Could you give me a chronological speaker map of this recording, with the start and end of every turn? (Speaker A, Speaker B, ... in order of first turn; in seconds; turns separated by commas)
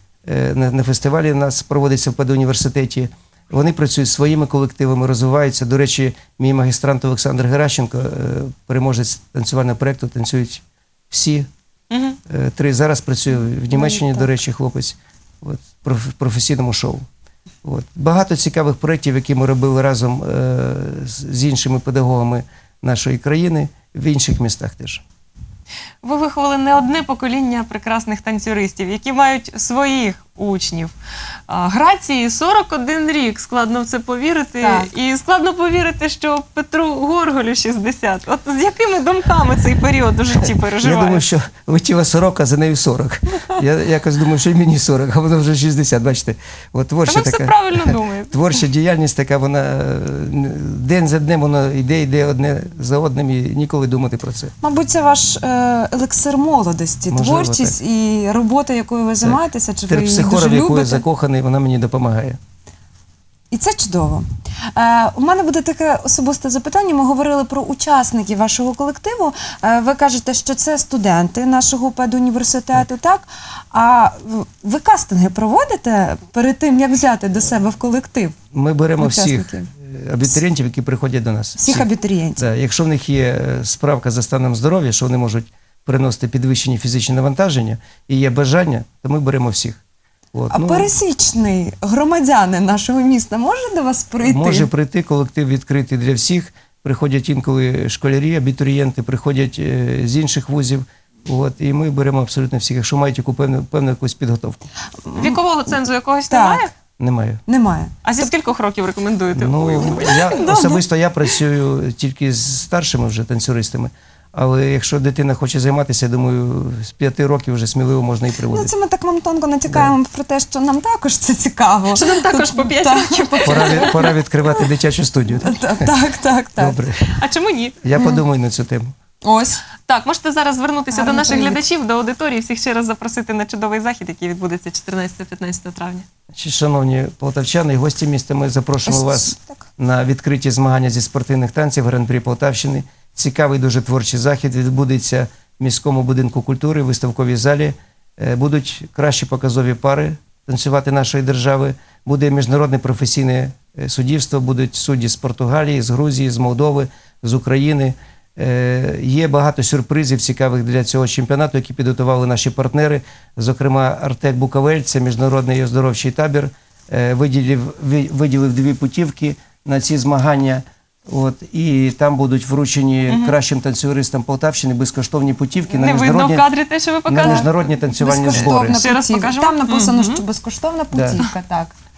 Speaker A: 0.2-11.5, Speaker B: 11.9-12.2, Speaker A: 12.3-17.1, Speaker C: 13.7-14.3, Speaker A: 17.6-25.0, Speaker B: 26.0-30.9, Speaker B: 31.5-41.2, Speaker C: 34.6-34.9, Speaker A: 40.8-54.5, Speaker B: 47.1-48.4, Speaker C: 54.6-61.0, Speaker A: 57.1-57.8, Speaker A: 59.2-62.4, Speaker C: 63.5-78.4, Speaker A: 78.5-89.8, Speaker C: 79.0-79.7, Speaker C: 81.6-82.4, Speaker A: 90.3-90.9, Speaker C: 90.5-94.7, Speaker A: 94.2-104.6, Speaker C: 105.1-105.4, Speaker B: 105.2-106.7, Speaker C: 106.3-106.7, Speaker A: 107.0-107.4, Speaker C: 107.5-107.9, Speaker B: 108.0-111.4, Speaker A: 109.3-118.7, Speaker C: 118.5-124.1, Speaker B: 121.9-124.1, Speaker A: 123.4-125.9, Speaker C: 125.4-126.8, Speaker A: 126.6-127.2, Speaker B: 127.1-127.8, Speaker A: 127.8-128.9, Speaker C: 129.2-129.6, Speaker B: 129.9-136.1, Speaker C: 130.9-131.6, Speaker A: 136.3-176.5, Speaker C: 138.9-139.7, Speaker B: 173.1-173.3, Speaker B: 175.7-177.5, Speaker A: 177.1-178.8, Speaker C: 177.2-181.7, Speaker B: 178.2-180.2, Speaker A: 180.9-181.2